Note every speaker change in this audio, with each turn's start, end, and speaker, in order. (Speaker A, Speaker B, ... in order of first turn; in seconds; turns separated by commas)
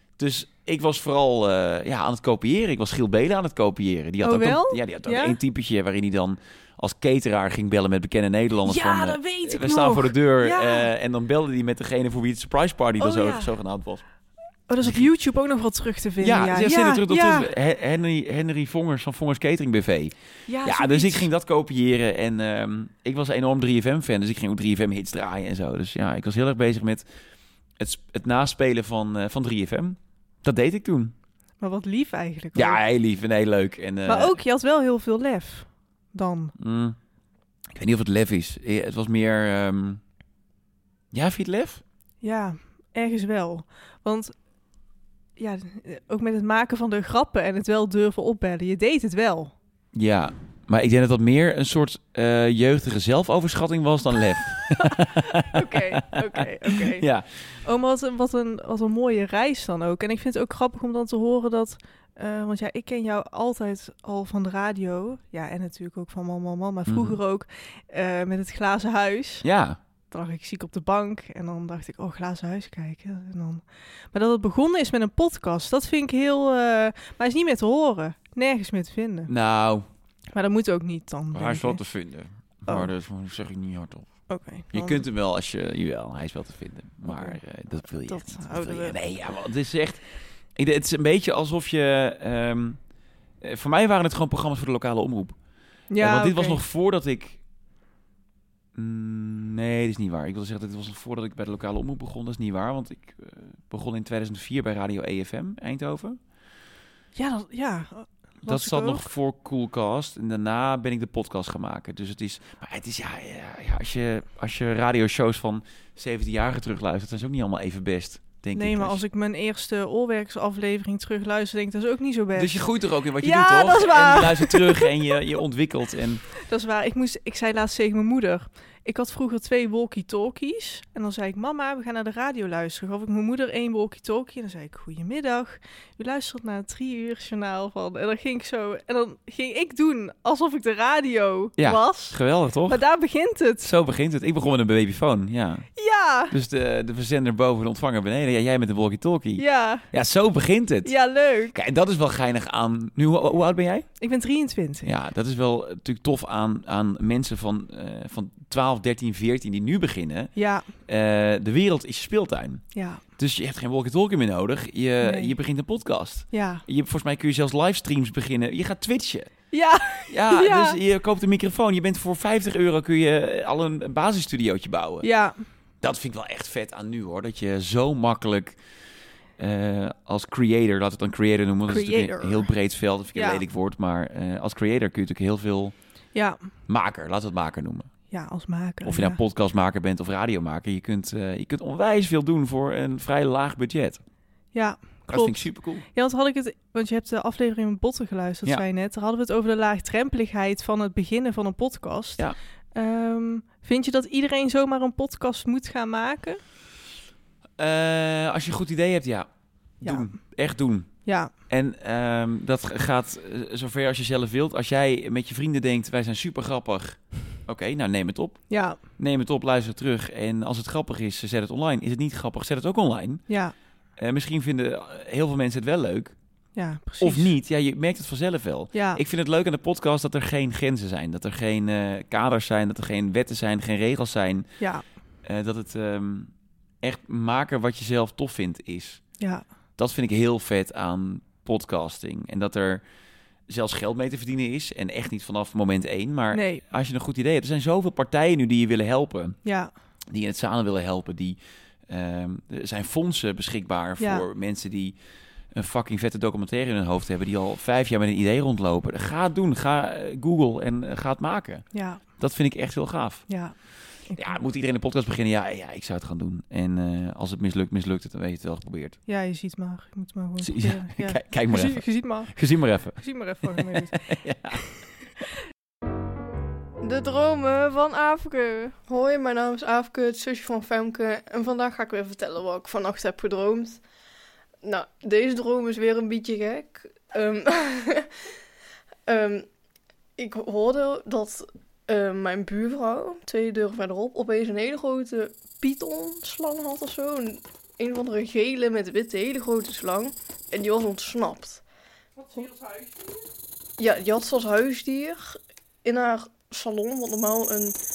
Speaker A: 0.2-14.0, Speaker B: 4.2-5.4, Speaker B: 8.7-10.9, Speaker B: 13.0-13.5, Speaker B: 14.7-17.5, Speaker A: 14.8-15.1, Speaker A: 16.2-20.1, Speaker B: 20.5-21.3, Speaker A: 20.6-27.1, Speaker A: 27.8-31.1, Speaker B: 31.6-32.8, Speaker A: 32.5-34.4, Speaker B: 34.0-36.5, Speaker A: 36.6-37.0, Speaker A: 37.7-40.0, Speaker A: 41.1-41.8, Speaker B: 42.2-44.3, Speaker B: 45.4-49.5, Speaker A: 49.9-57.2, Speaker B: 54.8-57.1, Speaker B: 57.6-69.5, Speaker A: 66.9-67.2, Speaker A: 69.4-69.8, Speaker B: 70.1-79.3, Speaker A: 79.3-79.9, Speaker B: 80.3-81.8, Speaker A: 81.3-84.1, Speaker B: 84.3-85.0, Speaker A: 84.7-90.0, Speaker B: 87.1-87.4, Speaker B: 88.1-89.0, Speaker A: 90.6-92.8, Speaker A: 93.4-95.4, Speaker B: 95.9-96.6, Speaker A: 96.0-97.4, Speaker A: 98.8-106.2, Speaker B: 107.2-109.1, Speaker A: 108.5-119.0, Speaker B: 118.5-122.6, Speaker A: 122.3-126.2, Speaker B: 123.2-125.0, Speaker B: 126.3-143.7, Speaker A: 141.6-142.8, Speaker A: 143.6-145.7, Speaker B: 145.8-146.3, Speaker A: 146.3-150.9, Speaker B: 149.4-149.9, Speaker B: 150.8-151.6, Speaker A: 151.5-153.9, Speaker B: 154.0-154.9, Speaker A: 154.8-160.3, Speaker B: 160.4-160.7, Speaker A: 160.9-162.6, Speaker B: 162.8-163.0, Speaker A: 163.2-169.3, Speaker B: 165.0-165.3, Speaker B: 166.3-166.6, Speaker B: 169.5-170.8, Speaker A: 170.1-175.1, Speaker B: 175.0-175.5, Speaker A: 175.8-178.6, Speaker A: 179.4-185.8, Speaker B: 181.7-182.5, Speaker B: 183.1-183.4, Speaker A: 186.7-187.9, Speaker B: 188.1-189.2, Speaker A: 188.8-194.0, Speaker B: 194.5-206.4, Speaker A: 195.1-195.8, Speaker A: 207.6-209.3, Speaker A: 209.8-210.9, Speaker B: 209.8-210.1, Speaker B: 211.1-211.3, Speaker A: 211.5-223.2, Speaker B: 218.5-218.8, Speaker B: 223.3-223.5, Speaker A: 224.0-226.2, Speaker B: 226.6-227.3, Speaker A: 227.0-234.5, Speaker B: 228.7-229.0, Speaker B: 234.6-234.9, Speaker A: 235.2-236.3, Speaker A: 236.8-239.0, Speaker A: 239.8-242.8, Speaker A: 243.5-249.4, Speaker B: 246.3-246.6, Speaker B: 249.4-249.7, Speaker A: 250.1-255.0, Speaker B: 254.0-254.3, Speaker A: 255.5-263.3, Speaker B: 261.7-262.0, Speaker B: 263.3-263.6, Speaker B: 264.1-264.4, Speaker A: 264.1-269.0, Speaker B: 269.1-272.3, Speaker A: 270.4-274.6, Speaker B: 273.0-274.7, Speaker C: 276.8-283.8, Speaker B: 278.1-278.7, Speaker C: 284.6-288.1, Speaker C: 289.1-289.5, Speaker C: 290.2-301.6, Speaker C: 303.8-307.8